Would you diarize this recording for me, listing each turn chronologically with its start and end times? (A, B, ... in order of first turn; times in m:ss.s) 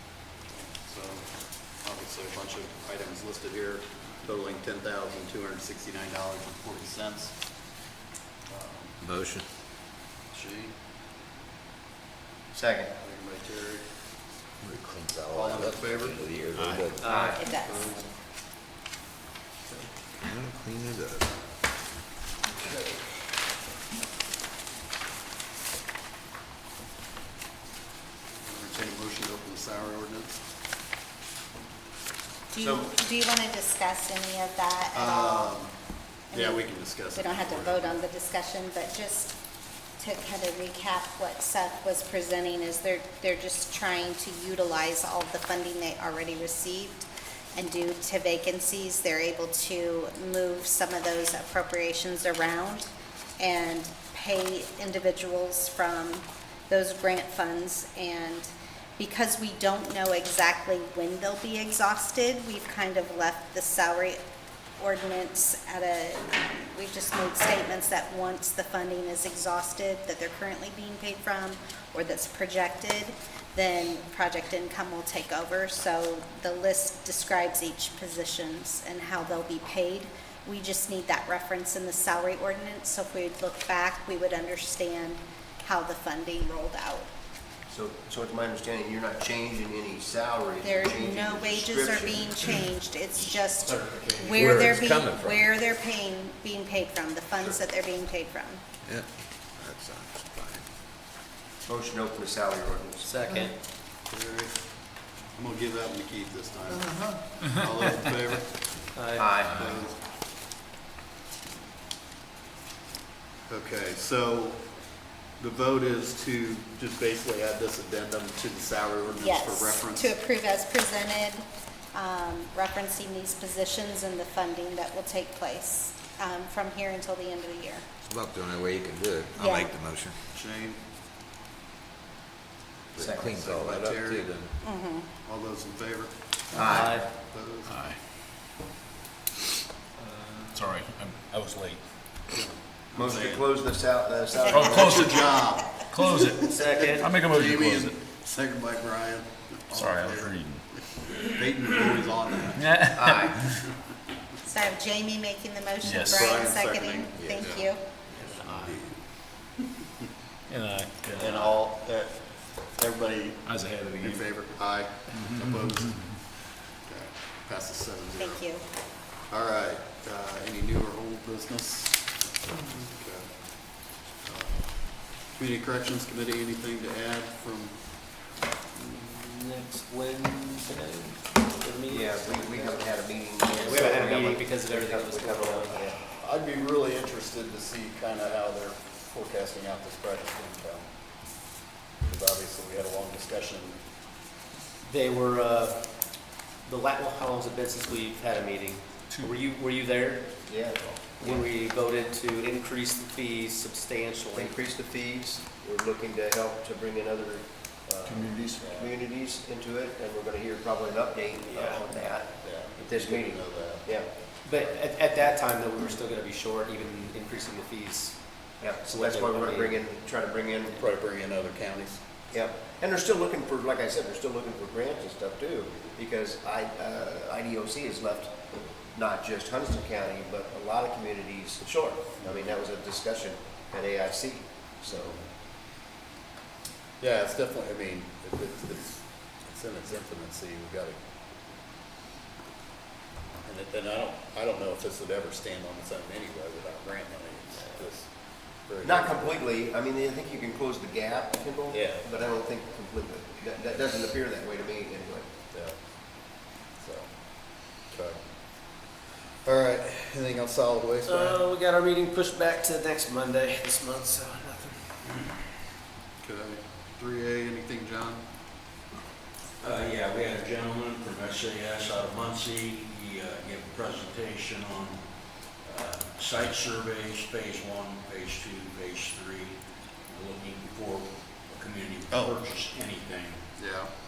0:00.5-0:07.4 A
0:08.5-0:09.0 A
0:09.0-0:09.4 B
0:10.3-0:10.7 A
0:12.5-0:12.9 C
0:13.0-0:13.9 A
0:14.6-0:17.1 B
0:15.3-0:16.8 A
0:17.0-0:17.4 D
0:17.0-0:17.4 C
0:17.4-0:17.8 E
0:17.5-0:18.1 A
0:20.2-0:21.4 B
0:28.3-0:30.4 A
0:32.5-0:35.5 E
0:32.6-0:32.9 C
0:34.9-0:35.7 A
0:36.3-0:38.0 A
0:36.3-0:39.4 E
0:40.0-1:04.2 E
1:04.8-1:27.1 E
1:27.7-1:32.6 C
1:30.6-1:38.6 E
1:33.9-1:34.3 D
1:34.3-1:35.5 B
1:38.9-1:40.7 B
1:41.7-1:43.1 C
1:43.0-1:43.6 D
1:44.1-1:44.8 A
1:45.3-1:48.7 A
1:46.8-1:47.1 B
1:49.0-1:49.4 D
1:49.2-1:49.8 C
1:49.4-1:50.0 A
1:53.5-1:54.7 A
1:55.4-2:00.1 A
1:59.2-2:07.8 E
2:08.0-2:10.2 B
2:09.4-2:09.7 E
2:10.3-2:10.8 A
2:13.0-2:14.5 B
2:13.0-2:14.3 A
2:13.0-2:13.3 C
2:14.6-2:15.1 E
2:15.2-2:17.8 A
2:16.5-2:17.0 C
2:16.6-2:17.1 D
2:17.7-2:17.9 F
2:20.0-2:20.6 D
2:20.6-2:21.8 F
2:20.9-2:21.7 G
2:22.3-2:23.5 A
2:23.0-2:25.3 C
2:24.3-2:25.4 E
2:24.6-2:32.9 A
2:24.6-2:25.0 F
2:25.9-2:27.7 G
2:26.4-2:27.1 D
2:27.4-2:27.9 F
2:29.8-2:30.6 F
2:32.8-2:33.1 G
2:33.0-2:33.4 C
2:34.4-2:37.8 E
2:35.8-2:36.2 G
2:36.0-2:37.7 A
2:37.2-2:37.5 B
2:38.2-2:38.8 B
2:38.4-2:38.9 A
2:40.5-2:41.4 G
2:41.2-2:46.2 A
2:43.5-2:44.2 F
2:46.8-2:48.5 A
2:48.2-2:48.6 E
2:49.3-2:53.4 A
2:54.2-2:57.8 A
2:58.7-3:03.0 D
3:01.9-3:06.0 C
3:03.5-3:05.9 D
3:06.1-3:10.9 A
3:12.0-3:13.8 A
3:14.8-3:15.9 D
3:16.6-3:20.3 D
3:20.4-3:21.4 C
3:21.2-3:24.6 D
3:24.3-3:34.1 C
3:28.1-3:28.6 G
3:28.6-3:28.9 A
3:31.5-3:32.0 D
3:32.3-3:34.0 A
3:34.4-3:38.2 D
3:38.6-3:40.8 C
3:38.8-3:39.8 D
3:40.8-3:42.0 A
3:42.3-3:48.3 C
3:48.9-3:55.2 C
3:57.0-4:01.0 A
4:03.4-4:08.1 A
4:08.6-4:09.4 A
4:08.8-4:15.3 C
4:11.7-4:12.0 A
4:15.5-4:15.8 A
4:16.8-4:17.2 A
4:17.8-4:18.2 A
4:19.4-4:21.4 A
4:21.0-4:24.8 D
4:26.2-4:28.2 A
4:29.6-4:35.0 F
4:35.6-4:43.4 F
4:42.1-4:42.4 A
4:43.6-4:43.9 A